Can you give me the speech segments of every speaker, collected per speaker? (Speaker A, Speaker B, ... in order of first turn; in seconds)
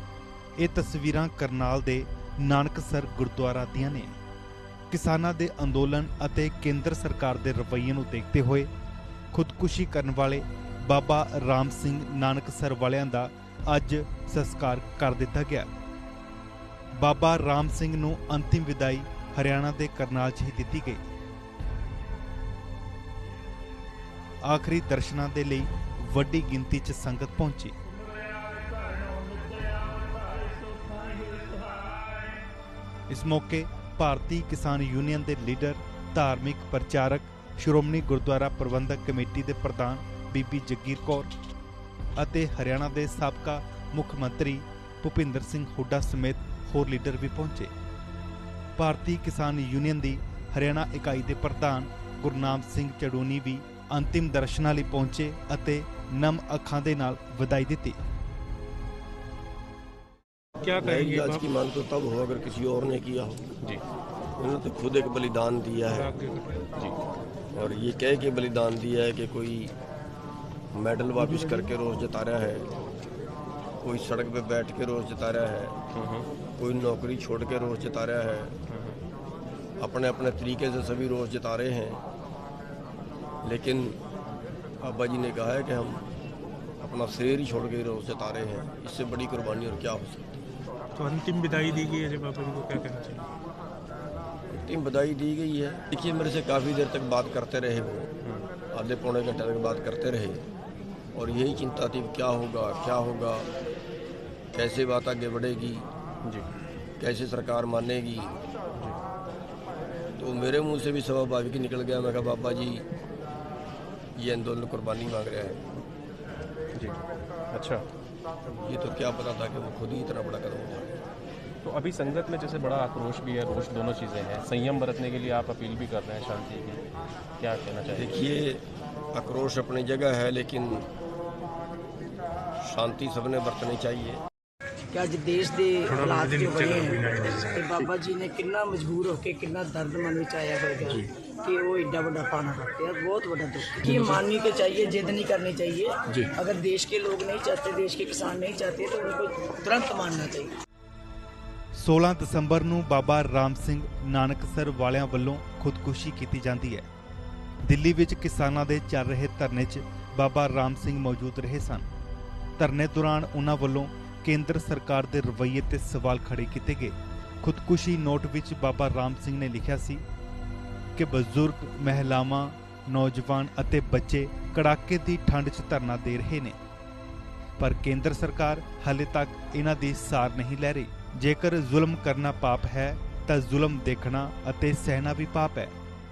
Speaker A: 0.6-4.2, 4.9-8.7, 9.3-15.7, 17.0-21.0, 24.4-27.7, 33.1-41.3, 42.1-47.7, 48.8-58.0, 151.7-156.9, 157.6-161.9, 162.6-170.0, 170.9-176.6, 177.6-185.7
Speaker B: 28.3-32.3, 60.6-61.5, 65.9-66.7, 71.2-71.7, 91.0-93.3, 135.8-137.7, 143.9-144.2
Speaker C: 60.8-63.5, 64.4-66.1, 67.5-69.7, 70.7-72.7, 73.8-75.8, 76.6-78.6, 79.8-82.0, 83.4-84.0, 84.8-86.1, 86.8-90.4, 94.5-98.1, 98.7-100.5, 101.1-103.5, 104.5-105.9, 107.0-108.4, 110.2-112.8, 114.2-115.6, 118.5-120.9, 127.9-130.9, 132.6-134.2
Speaker D: 75.9-76.3, 78.7-79.0, 116.7-117.0, 117.5-117.8, 121.6-126.8, 127.4-128.2
Speaker E: 134.9-150.5